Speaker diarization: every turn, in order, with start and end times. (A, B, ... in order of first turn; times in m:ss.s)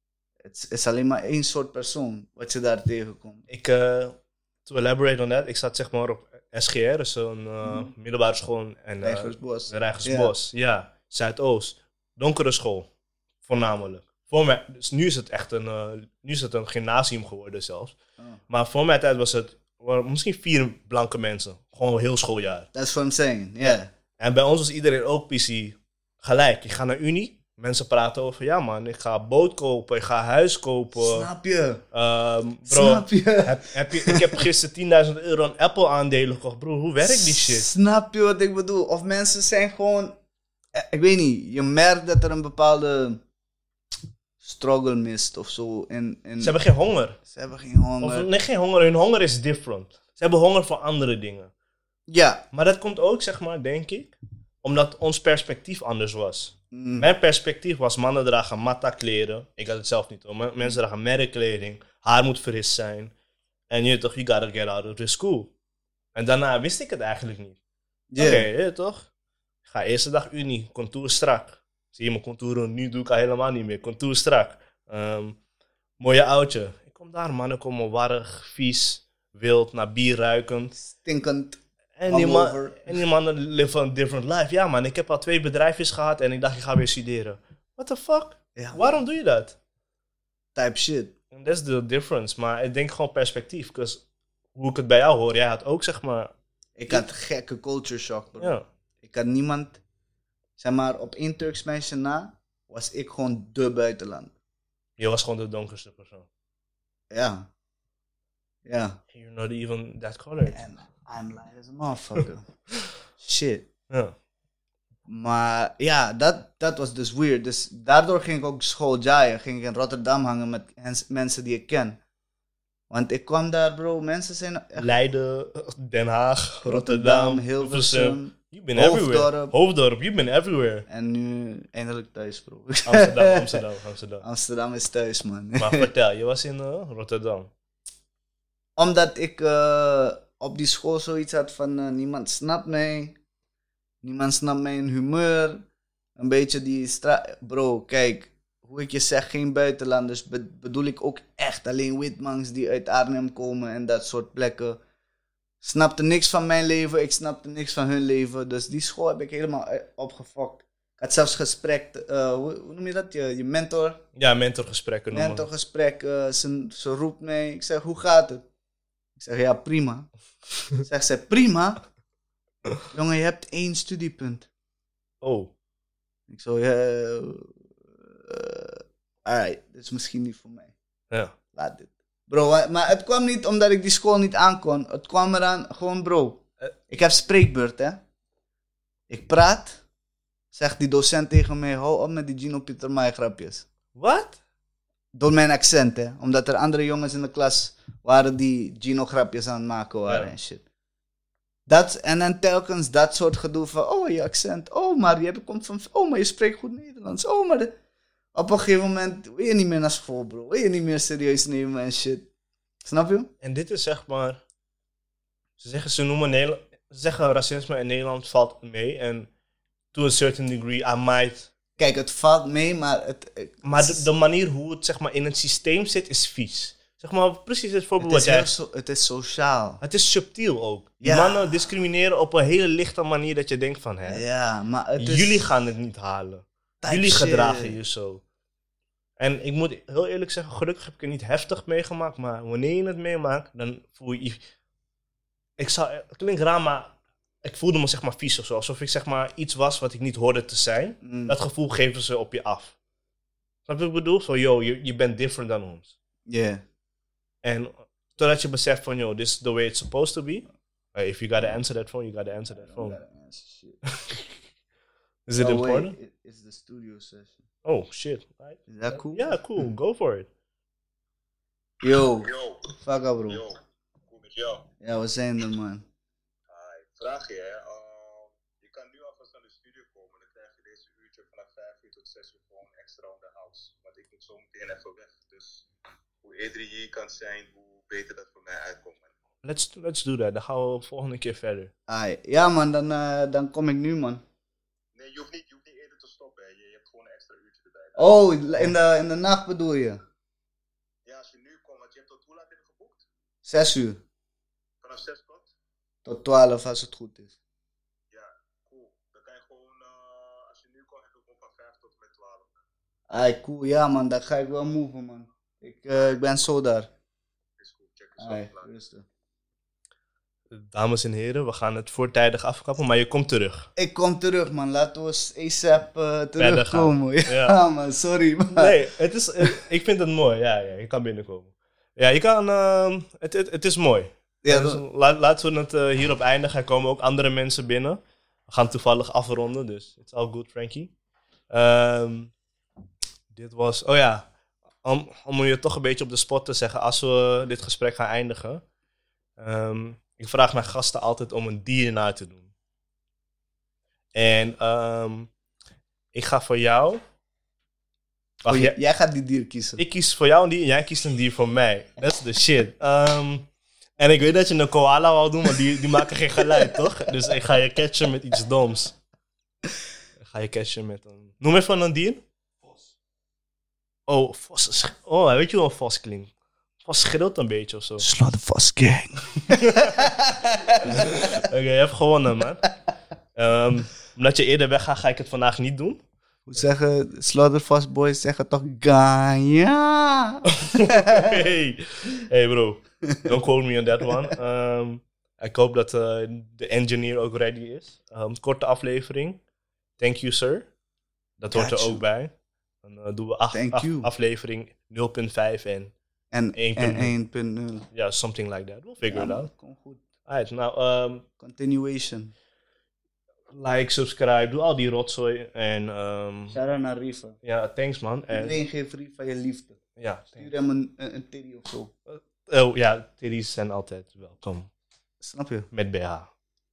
0:00.4-0:03.4 A
0:03.5-0:12.9 B
0:07.6-0:07.9 A
0:09.0-0:10.3 A
0:13.4-0:18.0 B
0:18.5-0:22.7 B
0:22.7-0:23.9 A
0:23.6-0:31.3 B
0:30.9-0:31.8 A
0:31.9-0:37.7 B
0:32.7-0:34.4 A
0:37.0-0:40.2 A
0:40.7-0:43.2 A
0:44.4-0:46.5 A
0:46.4-0:47.2 B
0:47.2-0:48.3 A
0:48.0-0:51.5 B
0:52.1-0:52.4 A
0:52.5-1:03.1 B
0:56.7-0:57.1 A
1:03.7-1:05.5 B
1:06.1-1:07.6 B
1:08.1-1:08.5 A
1:08.2-1:09.1 B
1:09.6-1:15.4 B
1:16.0-1:20.8 B
1:20.8-1:23.0 A
1:22.0-1:29.6 B
1:28.6-1:29.0 A
1:30.5-1:31.1 A
1:31.3-1:34.0 B
1:34.5-1:36.3 B
1:36.8-1:39.8 A
1:38.4-1:38.6 B
1:40.6-1:44.3 A
1:45.0-1:46.3 B
1:47.1-1:47.5 A
1:48.6-1:49.0 A
1:49.1-1:50.6 B
1:50.5-1:52.4 A
1:53.2-1:53.7 A
1:53.9-1:54.1 B
1:55.1-2:02.0 A
2:02.9-2:04.9 A
2:04.8-2:10.9 B
2:06.6-2:09.5 A
2:10.9-2:13.6 A
2:12.8-2:14.2 B
2:14.2-2:15.9 A
2:15.6-2:17.5 B
2:18.8-2:23.2 A
2:24.0-2:25.6 A
2:26.2-2:34.8 A
2:35.6-2:44.0 A
2:44.2-2:45.5 B
2:45.1-2:48.4 A
2:49.2-2:50.1 A
2:50.8-2:51.8 A
2:52.9-2:54.5 A
2:55.2-2:55.5 B
2:56.3-3:00.7 A
3:01.5-3:08.0 A
3:09.1-3:09.8 A
3:10.5-3:13.6 A
3:13.9-3:14.4 B
3:15.1-3:20.6 A
3:20.1-3:20.3 B
3:21.7-3:27.7 A
3:28.3-3:32.3 A
3:32.8-3:33.3 A
3:33.4-3:34.4 B
3:35.6-3:39.3 B
3:39.9-3:41.5 B
3:41.8-3:44.0 A
3:43.6-3:48.5 B
3:48.0-3:49.8 A
3:49.8-3:54.2 B
3:51.0-3:51.7 A
3:54.0-3:55.5 A
3:55.0-3:58.2 B
3:56.8-3:57.8 A
3:59.2-4:04.4 B
4:05.6-4:12.7 B
4:11.0-4:11.4 A
4:13.6-4:15.9 B
4:16.2-4:16.6 A
4:17.4-4:23.0 B
4:22.5-4:23.8 A
4:25.2-4:25.9 B
4:25.4-4:27.4 A
4:27.6-4:30.3 B
4:28.7-4:29.6 A
4:31.8-4:33.4 A
4:32.2-4:32.7 C
4:33.3-4:34.7 C
4:34.8-4:35.8 A
4:36.5-4:45.7 C
4:46.2-4:49.1 C
4:49.4-4:51.7 B
4:51.9-4:54.2 A
4:54.9-4:58.2 C
4:58.0-5:00.0 A
5:01.0-5:03.0 C
5:03.4-5:04.0 A
5:04.8-5:05.5 C
5:06.0-5:07.3 A
5:08.1-5:12.6 C
5:13.1-5:16.9 A
5:17.6-5:18.7 C
5:18.2-5:19.0 A
5:20.5-5:23.7 B
5:23.8-5:28.8 A
5:26.4-5:27.6 B
5:28.6-5:40.9 B
5:34.4-5:34.8 A
5:41.5-5:42.3 B
5:43.3-5:44.3 B
5:44.8-5:48.6 B
5:49.4-5:52.5 B
5:54.1-5:55.3 B
5:56.1-5:57.0 B
5:58.4-5:59.8 A
5:58.4-5:58.8 B
5:59.8-6:03.5 B
6:04.0-6:08.9 B
6:10.3-6:12.2 B
6:14.1-6:16.3 B
6:16.8-6:18.0 B
6:18.0-6:21.4 A
6:19.5-6:20.0 B
6:20.8-6:22.6 B
6:23.4-6:26.0 B
6:26.5-6:31.4 A
6:30.4-6:39.4 B
6:33.1-6:33.3 A
6:40.0-6:40.7 B
6:41.4-6:42.3 B
6:41.5-6:42.0 A
6:42.8-6:45.9 B
6:43.5-6:44.1 A
6:46.3-6:47.9 A
6:46.5-6:47.1 B
6:47.9-6:49.5 B
6:49.0-6:50.0 A
6:50.2-6:51.2 B
6:51.4-6:52.3 A
6:53.5-6:56.6 B
6:56.5-6:57.4 A
6:57.4-6:58.6 B
6:58.3-6:59.8 A
7:00.0-7:00.5 B
7:00.4-7:01.9 A
7:02.1-7:04.7 B
7:05.2-7:05.7 A
7:05.7-7:06.3 B